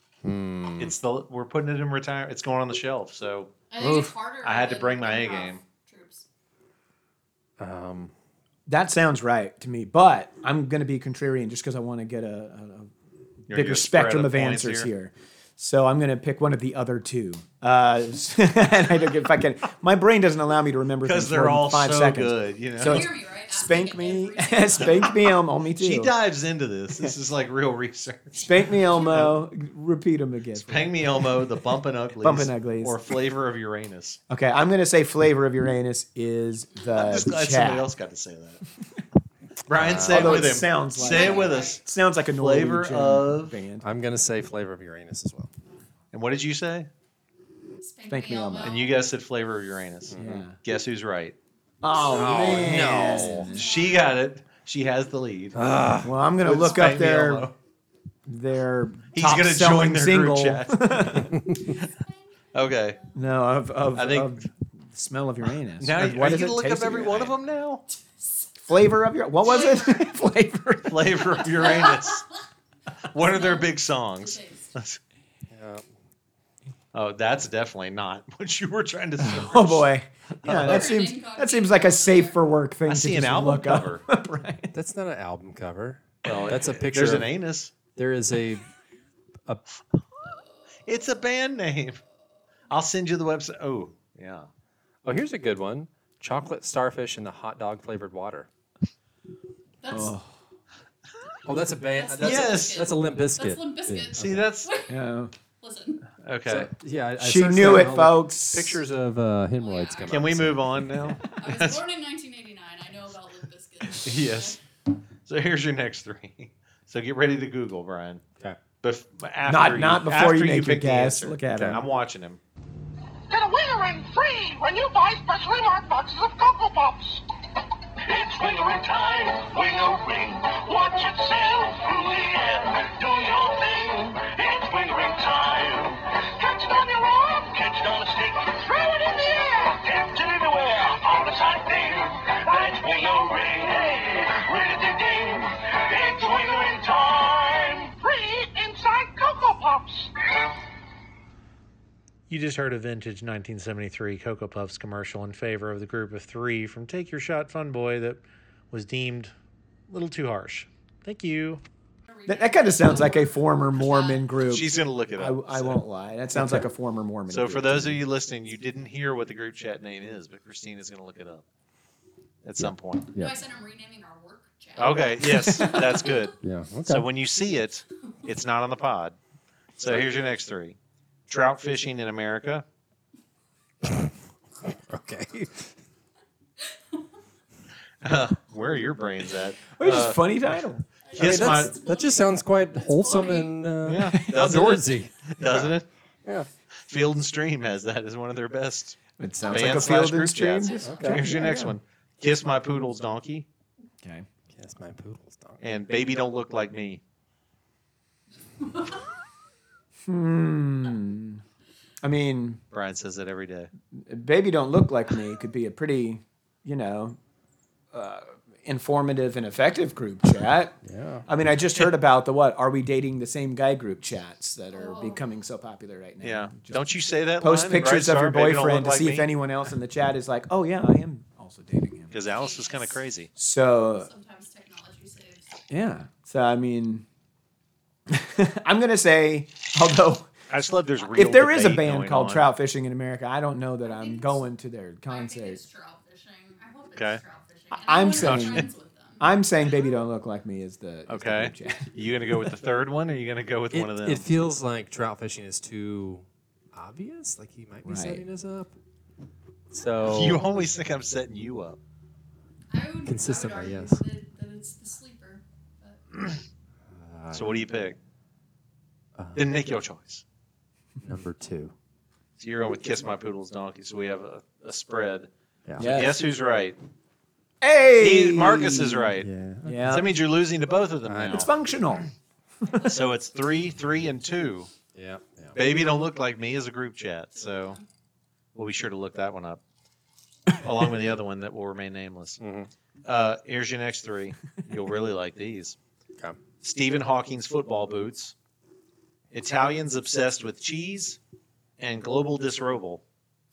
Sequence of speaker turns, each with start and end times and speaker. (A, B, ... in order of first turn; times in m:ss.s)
0:00.2-0:00.9 A
0:00.8-0:05.6 B
0:03.7-0:06.2 C
0:07.6-0:08.1 A
0:08.7-0:12.9 D
0:13.5-0:26.1 D
0:13.5-0:14.9 B
0:21.0-0:23.1 B
0:22.8-0:25.2 C
0:25.8-0:29.4 B
0:28.4-0:31.4 D
0:28.8-0:29.3 C
0:30.6-0:34.2 B
0:32.2-0:33.0 D
0:34.3-0:37.9 D
0:36.9-0:38.6 B
0:39.7-0:43.6 B
0:39.8-0:40.6 A
0:40.0-0:43.9 D
0:41.0-0:41.8 C
0:43.8-0:45.5 A
0:46.1-0:46.9 B
0:47.8-0:49.0 C
0:48.1-0:48.8 D
0:48.6-0:51.4 B
0:50.1-0:50.4 A
0:50.2-0:50.6 D
0:51.8-0:53.6 D
0:52.0-0:54.1 C
0:52.1-0:53.5 A
0:52.3-0:55.6 B
0:55.6-0:56.1 A
0:56.0-0:57.5 D
0:56.4-0:57.6 B
0:58.3-1:01.4 D
0:59.1-1:01.8 B
1:01.3-1:01.7 A
1:01.8-1:03.2 C
1:02.5-1:03.0 B
1:03.1-1:07.4 D
1:03.9-1:04.4 B
1:05.8-1:07.8 B
1:08.2-1:08.5 C
1:08.6-1:11.5 D
1:09.4-1:10.2 C
1:10.9-1:12.3 B
1:11.4-1:12.3 C
1:13.1-1:15.0 B
1:13.1-1:14.7 C
1:15.5-1:15.8 A
1:16.9-1:19.9 B
1:19.2-1:24.8 D
1:20.4-1:21.0 B
1:20.5-1:22.4 C
1:22.9-1:24.0 B
1:24.7-1:27.3 A
1:26.2-1:27.7 B
1:28.0-1:28.7 A
1:30.2-1:30.8 C
1:30.8-1:32.0 B
1:32.7-1:34.5 B
1:35.0-1:38.5 A
1:39.8-1:40.2 C
1:39.9-1:40.3 D
1:41.4-1:44.4 A
1:41.9-1:45.0 C
1:42.2-1:42.9 B
1:44.2-1:44.7 B
1:44.9-1:45.3 D
1:45.6-1:46.0 C
1:46.2-1:46.7 B
1:46.5-1:50.9 A
1:47.2-1:48.8 D
1:49.6-1:50.2 C
1:50.1-1:51.8 B
1:51.3-1:54.6 C
1:53.9-1:54.6 B
1:55.3-1:58.2 B
1:58.8-2:02.4 B
1:59.5-2:01.8 D
2:01.5-2:01.8 A
2:03.3-2:07.2 E
2:08.0-2:30.1 E
2:32.3-2:39.3 B
2:39.9-2:41.6 B
2:42.1-2:44.4 C
2:42.3-2:48.0 D
2:44.4-2:45.8 B
2:47.3-2:51.4 B
2:52.4-2:53.1 B
2:52.6-2:53.4 A
2:53.1-2:56.3 C
2:54.8-2:59.2 B
2:55.4-2:55.8 D
2:56.4-2:57.1 A
2:59.8-3:00.8 B
3:01.3-3:02.6 B
3:03.8-3:04.1 A
3:04.6-3:05.7 A
3:06.6-3:07.0 C
3:08.0-3:10.2 B
3:09.8-3:10.8 D
3:11.0-3:13.6 C
3:11.1-3:11.8 B
3:11.2-3:15.7 A
3:13.8-3:15.9 B
3:16.9-3:23.5 B
3:19.2-3:21.8 D
3:19.4-3:19.8 C
3:20.6-3:21.2 C
3:20.8-3:21.2 A
3:24.5-3:25.6 A
3:25.6-3:27.0 B
3:28.6-3:29.0 C
3:30.0-3:31.4 D
3:32.0-3:32.6 D
3:32.7-3:33.7 B
3:33.9-3:37.2 D
3:37.9-3:46.8 D
3:40.8-3:41.3 A
3:44.7-3:45.4 C
3:46.2-3:49.3 B
3:47.4-3:52.2 D
3:52.1-3:53.3 B
3:52.2-3:53.0 C
3:53.4-3:54.1 D
3:53.9-3:55.5 C
3:55.7-3:57.0 D
3:58.1-4:00.3 D
4:00.5-4:02.5 B
4:01.1-4:05.6 D
4:03.8-4:04.5 C
4:05.1-4:09.3 C
4:07.8-4:11.9 D
4:08.1-4:08.7 B
4:11.1-4:14.3 B
4:13.7-4:18.8 A
4:17.8-4:18.2 D
4:19.7-4:20.4 A
4:20.0-4:21.8 B
4:22.7-4:26.0 C
4:23.1-4:24.0 A
4:26.9-4:27.6 A
4:27.3-4:28.0 B
4:29.2-4:29.4 A
4:29.4-4:30.2 B
4:31.0-4:31.8 A
4:32.4-4:36.8 B
4:35.7-4:35.9 A
4:35.8-4:36.2 D
4:37.6-4:40.1 D
4:38.0-4:39.3 B
4:39.2-4:39.9 A
4:39.8-4:41.5 B
4:41.1-4:41.5 A
4:41.3-4:42.1 D
4:42.7-4:43.0 C
4:42.8-4:44.7 B
4:44.9-4:45.6 A
4:45.6-4:47.8 B
4:47.3-4:47.9 C
4:48.6-4:49.6 B
4:50.5-4:52.4 B
4:52.4-4:52.7 A
4:53.0-4:55.8 B
4:56.6-4:58.4 B
4:59.3-5:01.2 B
5:01.8-5:03.0 B